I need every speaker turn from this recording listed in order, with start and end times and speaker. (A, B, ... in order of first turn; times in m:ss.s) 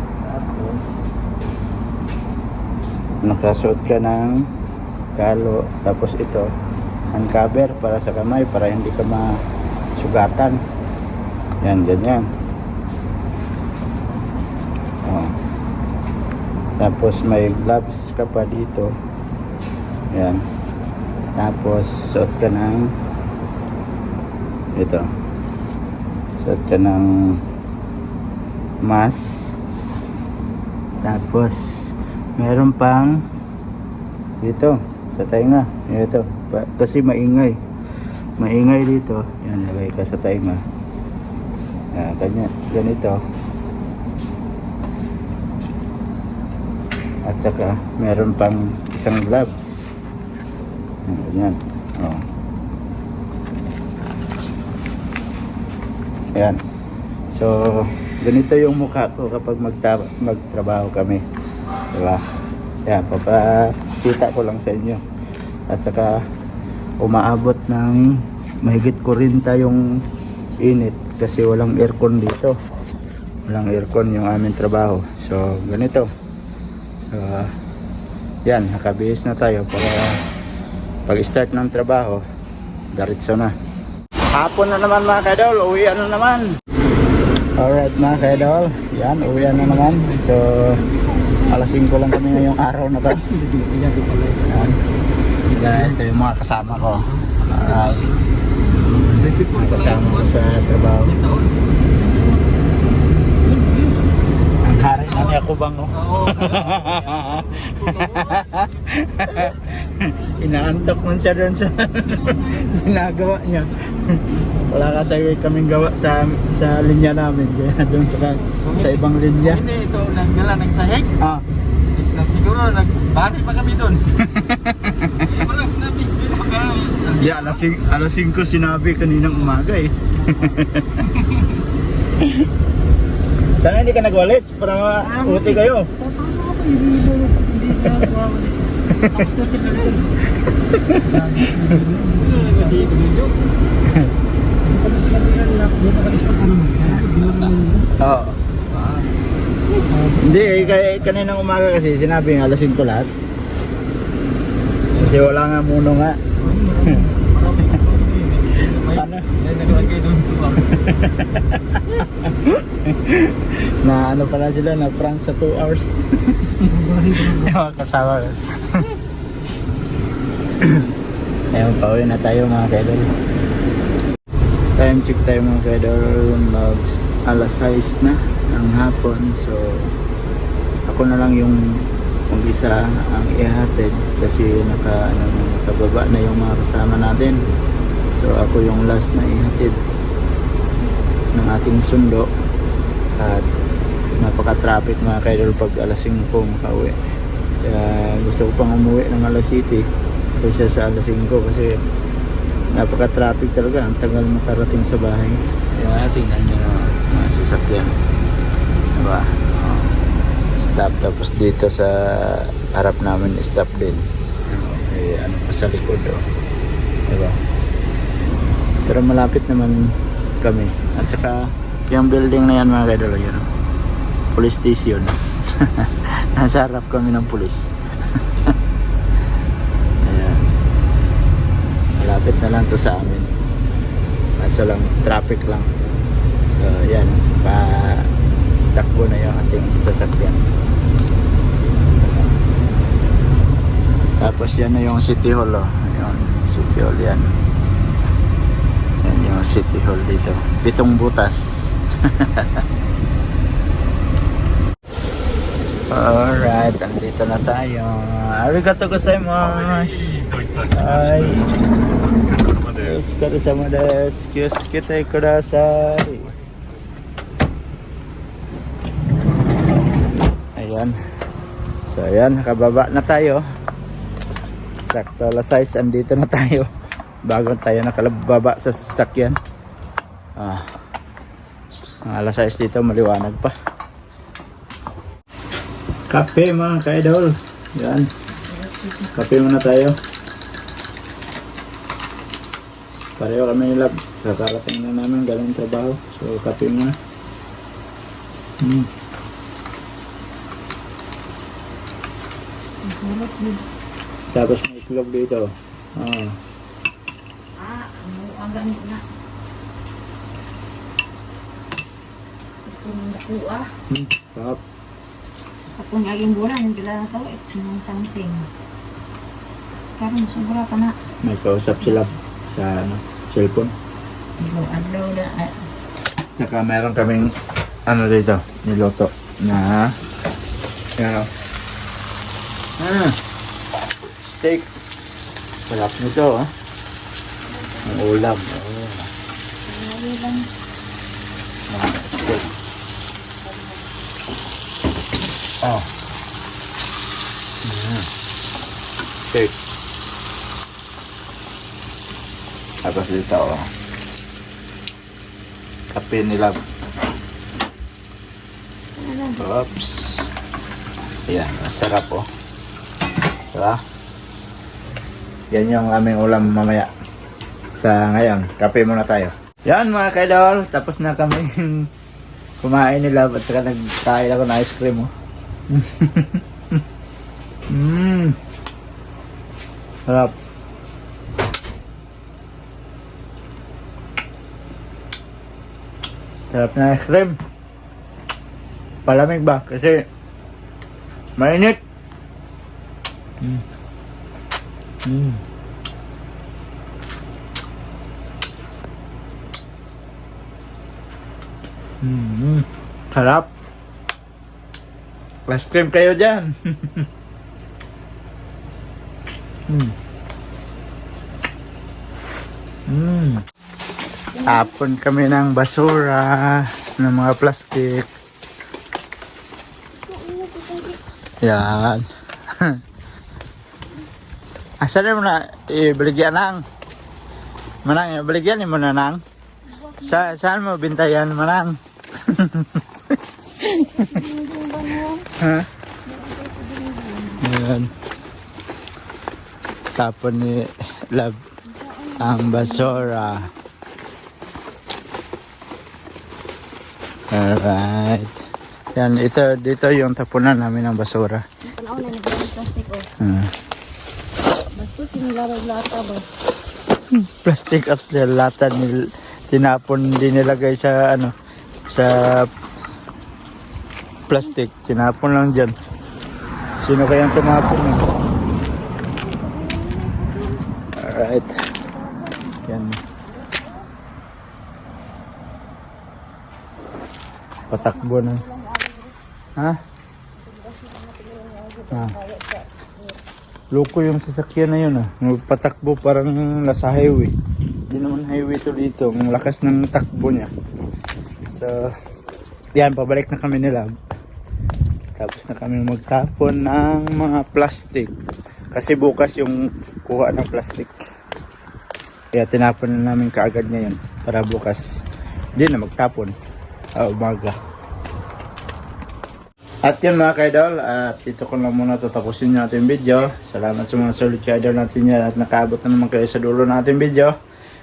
0:00.2-0:01.1 A
0:03.2-0:04.5 A
0:05.1-0:06.5 A
0:07.1-0:09.4 A
0:10.0-0:10.6 A
0:11.6-0:12.3 A
0:15.0-0:15.4 A
0:16.8-0:18.9 A
0:20.1-0:20.4 A
0:21.4-0:22.9 A
0:24.7-0:25.1 A
0:26.4-0:27.4 A
0:28.8-0:29.6 A
0:31.0-0:33.2 A
0:34.4-0:37.6 A
0:38.4-0:40.6 A
0:41.9-0:43.2 A
0:47.2-0:49.9 A
0:51.0-0:52.2 A
0:56.3-0:56.6 A
0:57.3-1:01.2 A
1:01.9-1:02.2 A
1:02.9-1:05.0 A
1:05.7-1:06.2 A
1:07.0-1:10.0 A
1:10.6-1:12.6 A
1:13.5-1:16.1 A
1:17.0-1:17.5 A
1:18.4-1:20.2 A
1:21.1-1:22.2 A
1:22.9-1:23.5 A
1:24.3-1:26.6 A
1:27.6-1:33.4 A
1:33.5-1:34.2 B
1:34.2-1:34.8 A
1:35.5-1:38.2 A
1:37.2-1:37.9 B
1:38.9-1:41.2 A
1:39.1-1:40.2 B
1:41.1-1:41.5 B
1:44.6-1:59.7 A
1:45.0-1:45.3 B
1:46.0-1:48.4 B
1:59.5-2:01.1 B
2:01.2-2:01.4 A
2:01.8-2:04.0 B
2:04.1-2:05.5 A
2:05.2-2:07.4 B
2:07.1-2:11.4 A
2:12.2-2:12.5 A
2:13.6-2:16.0 A
2:16.0-2:20.1 B
2:17.8-2:18.2 A
2:18.9-2:19.4 A
2:20.5-2:21.9 A
2:21.8-2:23.3 B
2:23.8-2:24.1 A
2:24.6-2:27.8 B
2:27.9-2:28.4 A
2:28.7-2:29.1 B
2:29.8-2:30.2 B
2:30.1-2:33.1 A
2:34.9-2:37.1 A
2:36.5-2:40.7 B
2:38.5-2:39.4 A
2:40.4-2:49.0 A
2:50.6-2:50.9 A
2:51.5-2:53.1 A
2:54.8-2:59.9 A
3:00.9-3:01.6 A
3:02.3-3:07.4 A
3:08.1-3:09.8 A
3:11.3-3:12.3 A
3:13.2-3:13.4 A
3:14.2-3:17.0 A
3:17.6-3:19.8 A
3:20.4-3:21.8 A
3:22.7-3:27.9 A
3:28.9-3:29.9 A
3:30.6-3:36.2 A
3:37.1-3:37.4 A
3:38.8-3:43.5 A
3:44.3-3:48.5 A
3:50.0-3:50.4 A
3:52.0-3:53.3 A
3:54.4-3:55.7 A
3:56.6-3:58.1 A
3:58.7-4:00.4 A
4:02.0-4:02.3 A
4:04.2-4:07.3 A
4:09.0-4:12.6 A
4:15.9-4:21.5 A
4:22.6-4:26.3 A
4:30.6-4:31.0 A
4:31.9-4:33.4 A
4:34.8-4:36.7 A
4:37.2-4:39.4 A
4:40.4-4:40.6 A
4:42.0-4:43.5 A
4:46.1-4:48.1 A
4:48.5-4:49.1 C
4:49.0-4:50.0 A
4:53.2-4:57.0 A
4:58.6-4:58.9 A
5:02.8-5:03.6 C
5:04.3-5:06.4 A
5:07.6-5:09.0 C
5:12.6-5:13.7 C
5:13.9-5:14.6 A
5:15.8-5:18.5 C
5:20.0-5:21.0 C
5:21.2-5:23.7 A
5:24.4-5:25.7 C
5:26.4-5:27.3 A
5:27.9-5:29.9 A
5:31.0-5:31.3 A
5:32.8-5:33.2 A
5:34.2-5:34.7 A
5:35.7-5:36.5 A
5:37.6-5:37.8 C
5:37.8-5:39.1 A
5:39.6-5:40.5 C
5:41.7-5:42.6 A
5:43.4-5:43.8 C
5:45.6-5:45.9 A
5:47.6-5:48.1 A
5:49.3-5:49.6 A
5:52.8-5:53.7 A
5:55.9-5:56.6 A
5:59.0-5:59.5 C
5:59.3-6:00.3 A
6:01.3-6:02.3 A
6:03.5-6:03.8 A
6:05.5-6:06.9 A
6:07.8-6:11.9 A
6:12.6-6:15.1 A
6:15.7-6:16.8 A
6:17.7-6:18.4 A
6:20.1-6:20.4 A
6:26.5-6:27.4 A
6:29.0-6:30.1 A
6:31.4-6:31.8 A
6:35.0-6:35.4 A
6:42.0-6:43.5 A
6:45.5-6:47.1 A
6:49.7-6:49.9 A
6:52.9-6:53.4 A
6:54.4-6:54.6 C
6:54.4-6:58.1 A
7:00.0-7:01.0 C
7:01.4-7:02.8 A
7:04.8-7:06.6 A
7:07.8-7:09.2 A
7:09.7-7:10.2 C
7:09.9-7:12.8 A
7:13.6-7:14.2 A
7:13.7-7:15.3 C
7:15.3-7:15.7 A
7:16.0-7:17.5 C
7:17.4-7:17.9 A
7:20.0-7:21.4 A
7:21.7-7:23.3 C
7:22.2-7:23.5 A
7:27.3-7:31.4 A
7:31.6-7:33.1 C
7:33.2-7:33.5 A
7:34.8-7:36.3 C
7:37.1-7:41.3 A
7:41.9-7:42.5 A
7:44.3-7:45.8 A
7:46.8-7:48.0 A
7:49.1-7:50.7 C
7:50.9-7:51.7 A
7:51.8-7:52.6 C
7:52.6-7:53.0 A
7:53.3-7:53.8 C
7:57.7-7:58.4 A
7:57.7-7:59.2 C
8:00.4-8:03.2 C
8:01.9-8:02.2 A
8:03.7-8:07.3 A
8:07.9-8:10.5 A
8:11.5-8:11.9 A
8:12.8-8:13.9 A
8:15.2-8:18.1 A
8:18.7-8:21.0 A
8:22.3-8:24.9 A
8:25.6-8:26.3 A
8:27.0-8:27.6 A
8:29.8-8:37.3 A